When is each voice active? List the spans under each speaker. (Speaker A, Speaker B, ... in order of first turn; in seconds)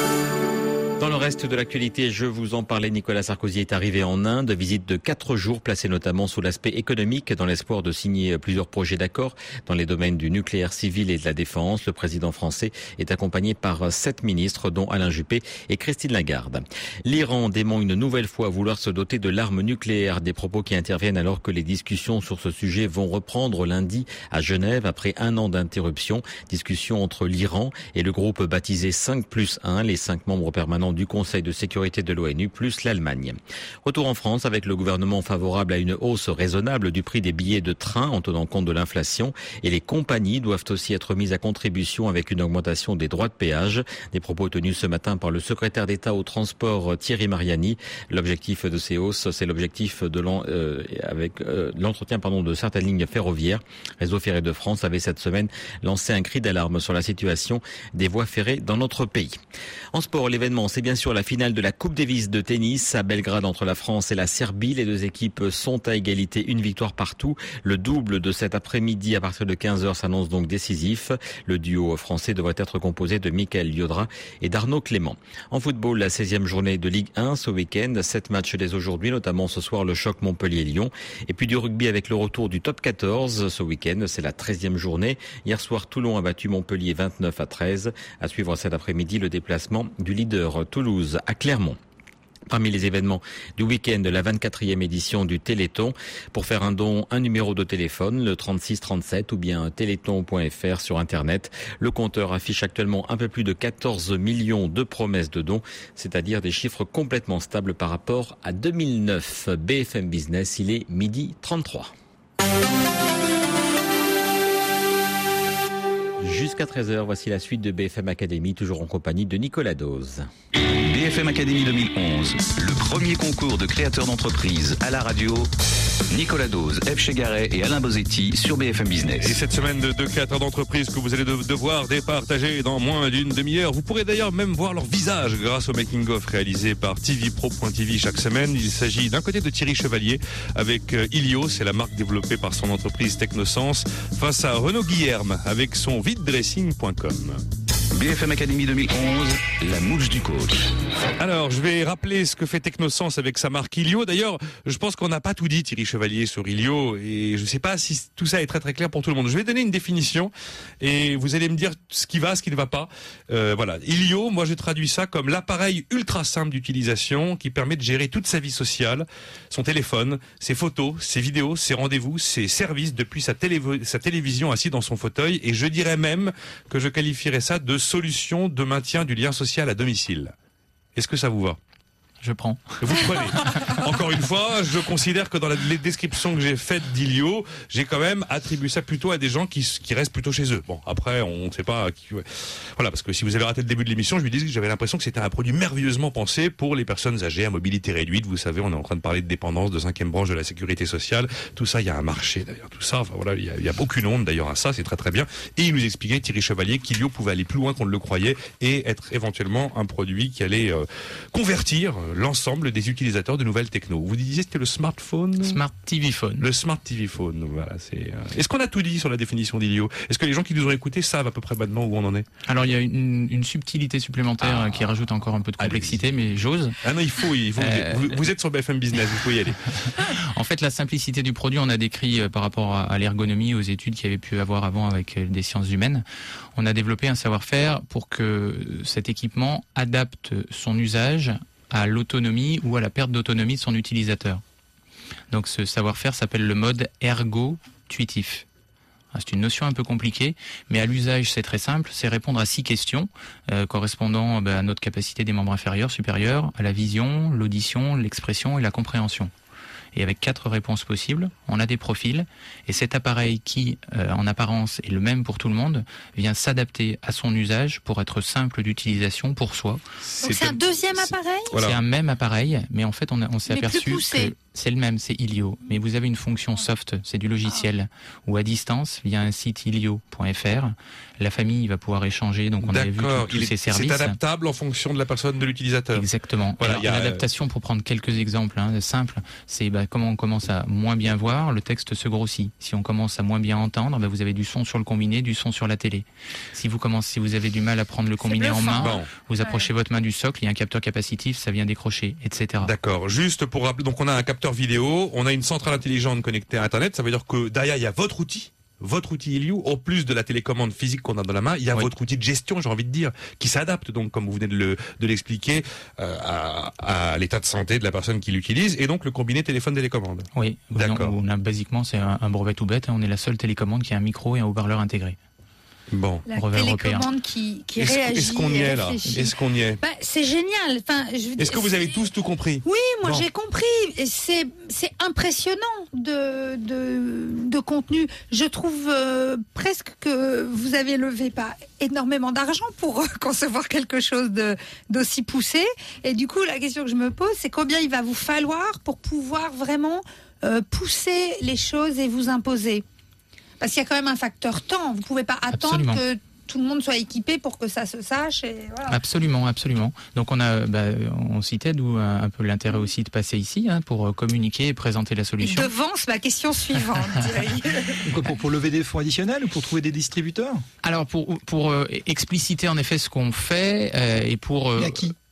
Speaker A: 1.0-59.4, 59.9-91.8, 92.5-111.9, 116.2-120.3
Speaker B: 120.7-125.5, 126.1-129.4, 147.9-150.7
Speaker C: 129.2-147.4, 151.2-180.3, 181.0-181.6, 182.8-215.6, 216.4-222.3, 224.4-224.9, 225.6-226.0, 226.8-229.7, 270.0-271.8, 282.6-286.1, 286.6-287.2, 298.8-299.1, 302.6-321.1, 325.9-326.3, 327.8-329.8, 331.4-333.3
Speaker D: 182.2-183.2, 215.4-216.4, 222.5-226.8, 227.6-228.2, 230.3-244.4, 245.3-248.4, 249.1-259.3, 259.9-269.8, 271.6-284.2, 285.9-302.7, 320.4-325.2, 326.3-327.1, 355.5-356.0, 358.9-365.7, 370.8-375.1
Speaker E: 270.2-271.6, 273.5-274.3, 298.2-299.7, 326.3-332.0, 332.6-352.8, 353.6-359.0, 365.4-368.0
Speaker F: 368.0-370.6, 374.8-375.1